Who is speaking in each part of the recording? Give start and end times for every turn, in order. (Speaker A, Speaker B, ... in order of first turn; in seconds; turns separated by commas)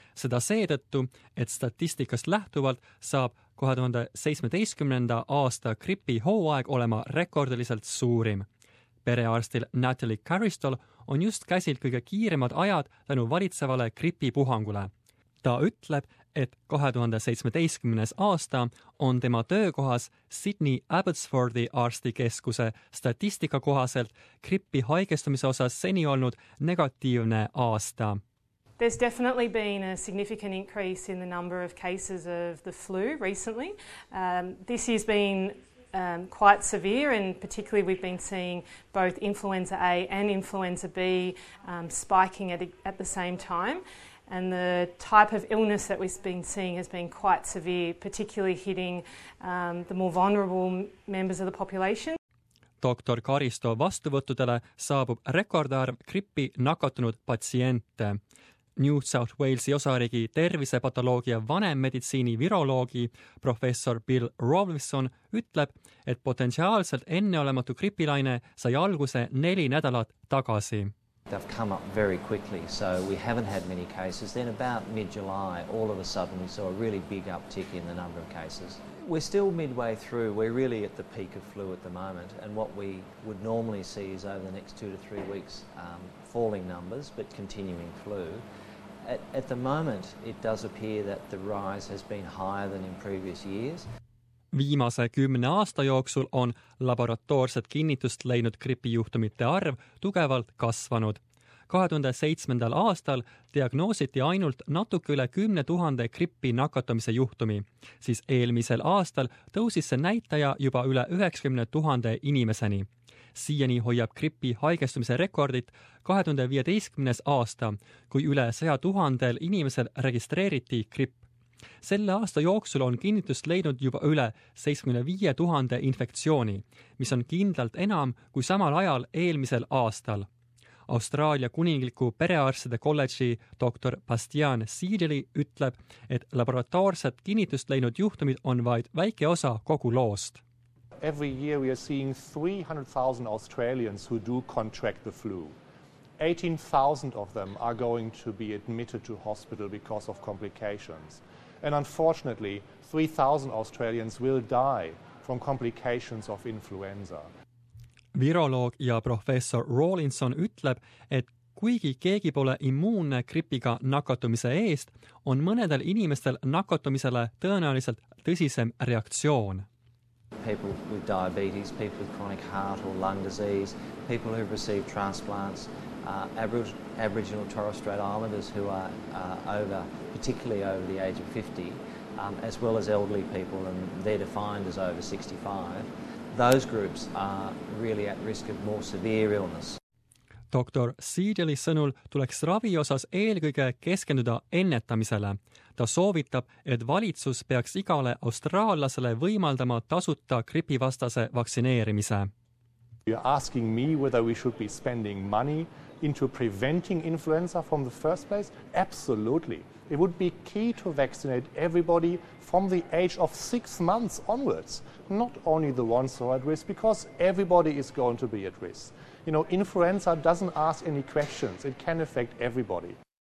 Speaker A: 0.1-8.4, Speaker A: 9.0-14.9, Speaker A: 15.4-28.2, Speaker B: 28.8-52.2, Speaker A: 52.8-58.2, Speaker A: 58.8-70.9, Speaker C: 71.3-88.4, Speaker C: 89.0-93.9, Speaker A: 94.5-121.2, Speaker A: 121.8-130.3, Speaker A: 130.9-140.4, Speaker D: 141.0-145.6, Speaker D: 146.2-157.3, Speaker A: 158.1-169.7, Speaker C: 170.4-189.8, Speaker A: 190.5-202.3, Speaker D: 203.1-223.0